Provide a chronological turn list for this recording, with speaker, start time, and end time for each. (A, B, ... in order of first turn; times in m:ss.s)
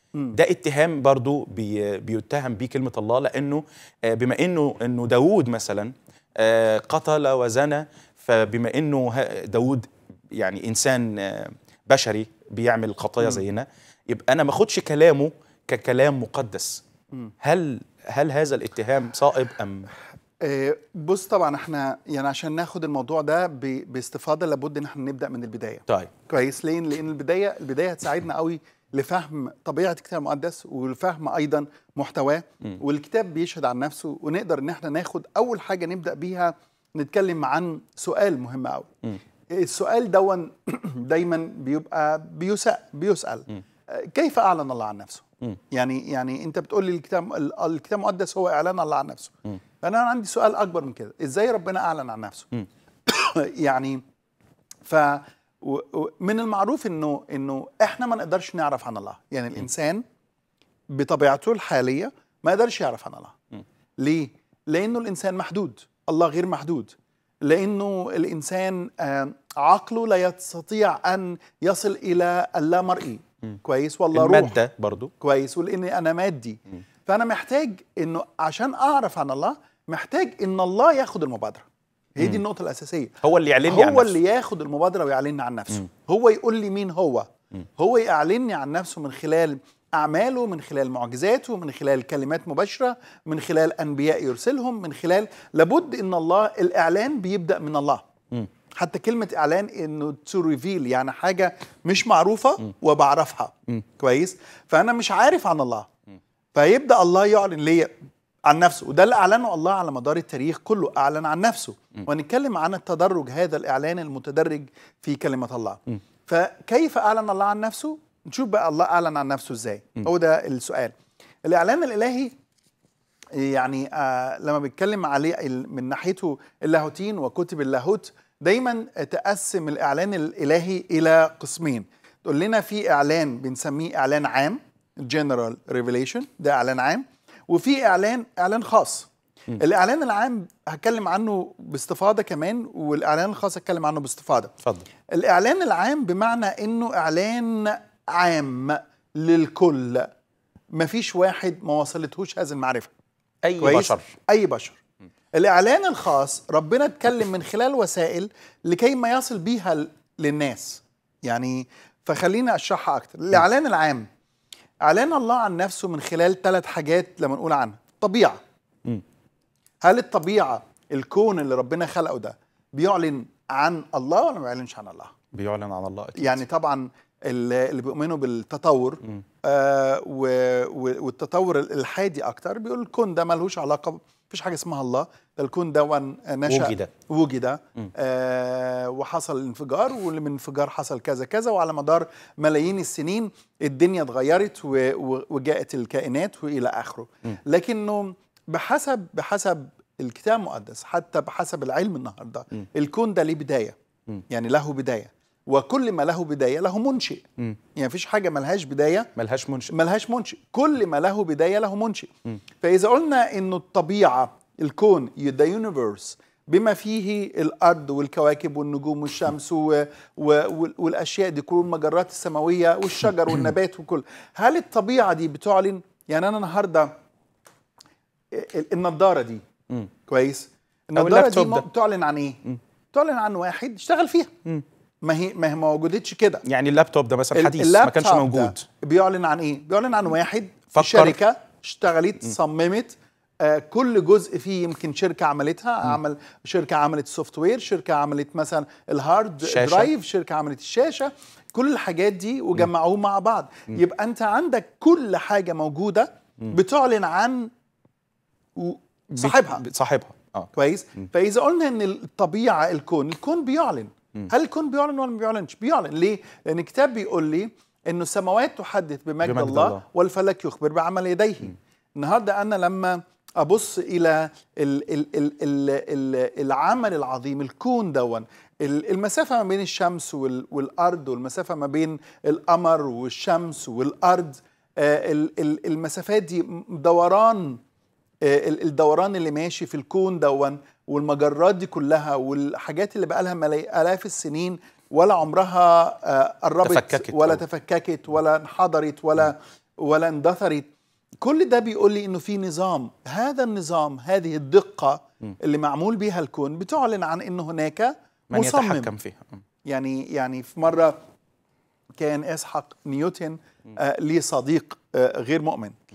0:00.3-0:16.8 A
0:17.4-0:19.9 A
0:20.4-0:38.9 B
0:39.5-0:54.0 B
0:54.8-1:00.0 B
1:00.9-1:03.4 B
1:04.0-1:14.6 B
1:14.1-1:15.1 A
1:15.2-1:23.1 B
1:23.2-1:24.2 A
1:23.6-1:38.0 B
1:38.8-1:45.9 B
1:46.5-1:47.9 B
1:48.5-2:00.9 B
2:01.4-2:02.3 B
2:03.3-2:24.5 B
2:25.1-2:30.1 B
2:30.7-2:32.9 B
2:33.4-2:34.1 A
2:33.6-2:34.8 B
2:35.3-2:44.1 B
2:44.8-2:48.4 B
2:49.8-2:55.1 B
2:55.3-2:56.4 A
2:56.2-3:23.8 B
3:06.5-3:06.9 A
3:24.3-3:29.1 B
3:29.2-3:29.7 A
3:29.7-3:46.9 B
3:48.3-3:49.4 B
3:50.0-3:52.4 B
3:51.0-3:51.7 A
3:52.9-3:54.3 B
3:55.0-3:56.4 B
3:56.4-3:58.6 A
3:57.3-4:17.5 B
4:00.7-4:01.2 A
4:09.4-4:09.9 A
4:18.6-4:19.6 B
4:19.2-4:20.5 A
4:20.5-4:47.6 B
4:29.2-4:29.8 A
4:48.2-5:00.7 B
4:56.6-4:57.4 A
5:01.2-5:08.9 B
5:08.3-5:09.4 A
5:09.6-5:11.0 B
5:12.0-5:15.8 B